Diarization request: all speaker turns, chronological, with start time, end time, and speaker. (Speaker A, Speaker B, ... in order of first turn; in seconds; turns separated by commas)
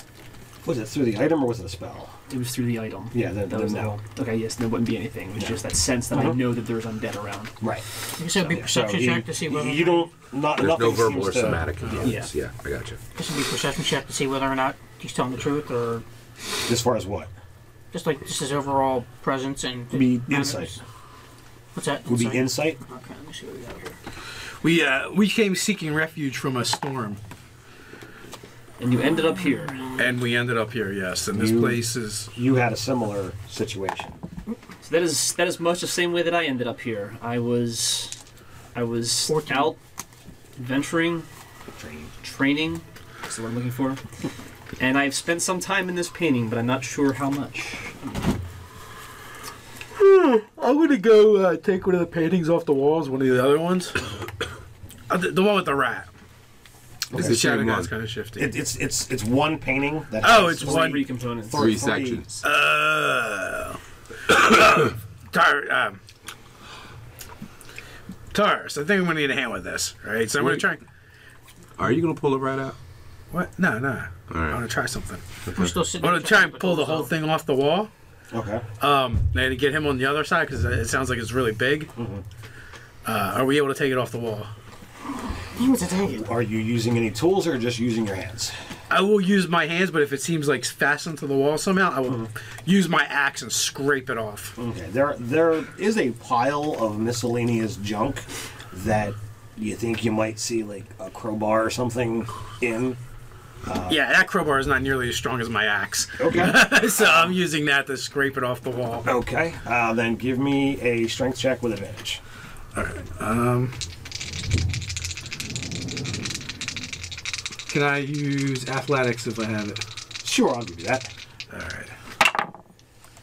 Speaker A: 0.6-2.2, Speaker B: 2.3-7.7, Speaker A: 3.1-4.0, Speaker A: 6.1-6.4, Speaker A: 7.6-12.2, Speaker C: 8.2-10.1, Speaker D: 10.6-13.0, Speaker B: 12.0-12.3, Speaker C: 13.1-16.0, Speaker A: 16.6-17.3, Speaker C: 17.9-20.8, Speaker A: 19.9-20.8, Speaker C: 21.8-24.0, Speaker A: 22.1-22.8, Speaker E: 24.6-27.2, Speaker B: 28.8-29.8, Speaker C: 29.1-30.1, Speaker E: 30.0-32.3, Speaker A: 31.3-34.1, Speaker B: 34.8-38.2, Speaker B: 38.7-39.8, Speaker C: 39.2-39.8, Speaker B: 40.6-41.3, Speaker A: 41.8-42.1, Speaker B: 42.2-44.0, Speaker B: 44.8-48.1, Speaker E: 50.0-54.1, Speaker E: 55.1-56.1, Speaker A: 57.1-57.4, Speaker F: 57.1-57.9, Speaker E: 57.1-58.6, Speaker A: 58.4-62.2, Speaker E: 60.2-61.1, Speaker B: 60.6-61.6, Speaker F: 61.5-62.4, Speaker E: 62.4-66.0, Speaker E: 68.3-70.8, Speaker F: 71.8-72.8, Speaker E: 73.3-75.2, Speaker F: 74.3-74.6, Speaker F: 75.5-75.8, Speaker C: 75.5-77.1, Speaker E: 76.0-77.9, Speaker A: 78.3-78.6, Speaker E: 78.8-81.9, Speaker A: 82.0-82.2, Speaker E: 83.0-84.5, Speaker C: 85.5-86.3, Speaker A: 86.1-88.6, Speaker E: 88.9-94.6, Speaker A: 94.6-103.0, Speaker A: 103.6-104.0, Speaker E: 103.9-109.1, Speaker A: 106.2-107.3, Speaker A: 109.0-112.2, Speaker E: 112.8-113.8, Speaker E: 117.7-119.8, Speaker A: 120.2-121.1, Speaker E: 121.5-121.9